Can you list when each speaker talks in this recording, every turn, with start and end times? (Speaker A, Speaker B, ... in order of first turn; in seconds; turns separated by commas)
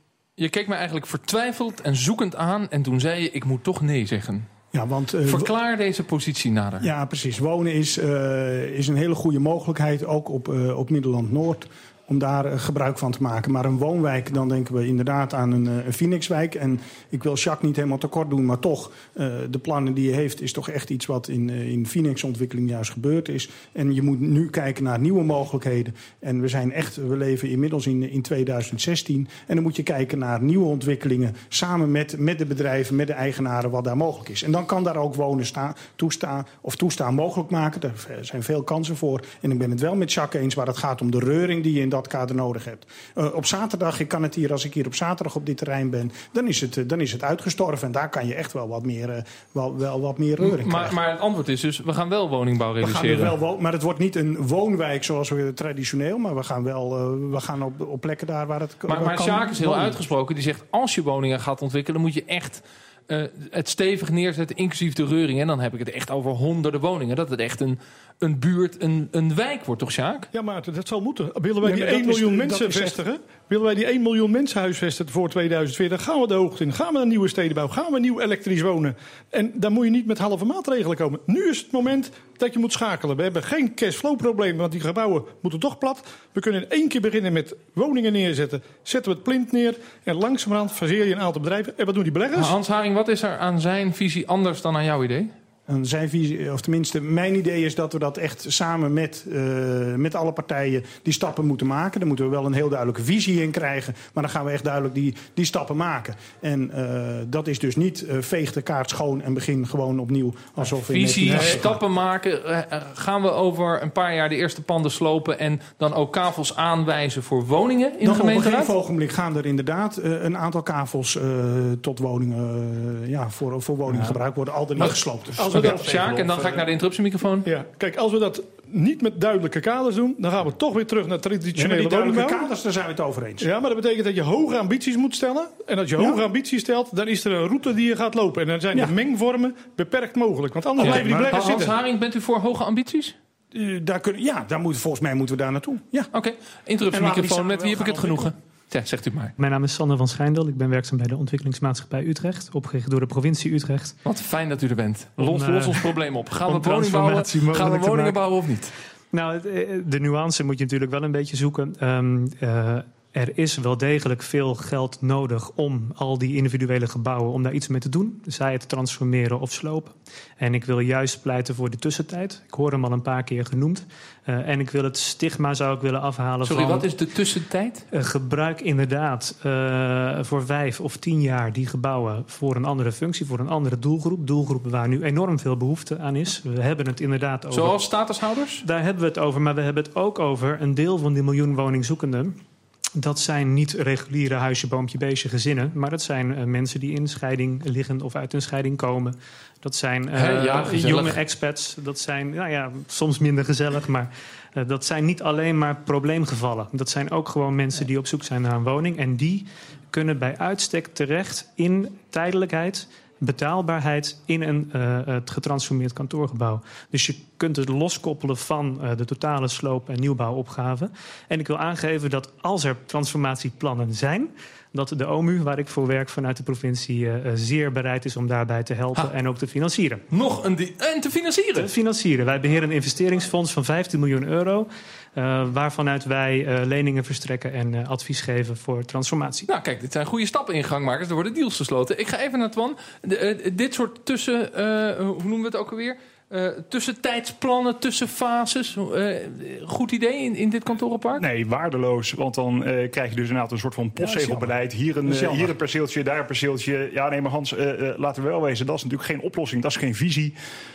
Speaker A: 0.4-4.5, Speaker B: 4.7-5.5, Speaker A: 5.2-6.9, Speaker B: 6.8-51.0, Speaker A: 50.4-53.4, Speaker B: 52.8-60.0, Speaker A: 58.9-70.3, Speaker C: 70.3-92.6, Speaker B: 71.6-73.0, Speaker A: 92.3-95.3, Speaker B: 95.7-111.8, Speaker A: 110.6-118.7, Speaker C: 111.3-111.7, Speaker B: 118.0-125.9, Speaker A: 124.8-127.5, Speaker C: 125.4-126.0, Speaker D: 126.1-126.6, Speaker C: 127.5-132.4, Speaker B: 131.5-133.5, Speaker C: 133.4-141.7, Speaker B: 136.0-136.2, Speaker A: 140.8-143.2, Speaker B: 140.8-141.4, Speaker B: 143.5-146.1, Speaker A: 146.1-149.3, Speaker B: 146.9-148.3, Speaker E: 149.4-154.0, Speaker A: 154.1-158.7, Speaker E: 155.2-158.2, Speaker E: 159.1-176.9, Speaker A: 176.4-177.8, Speaker E: 177.9-187.8, Speaker A: 187.5-188.6, Speaker E: 188.6-192.4, Speaker E: 193.0-230.0, Speaker A: 200.1-201.2, Speaker A: 230.1-231.7, Speaker E: 231.6-239.5, Speaker A: 239.5-251.2, Speaker D: 251.2-260.3, Speaker B: 254.0-254.5, Speaker B: 255.0-255.5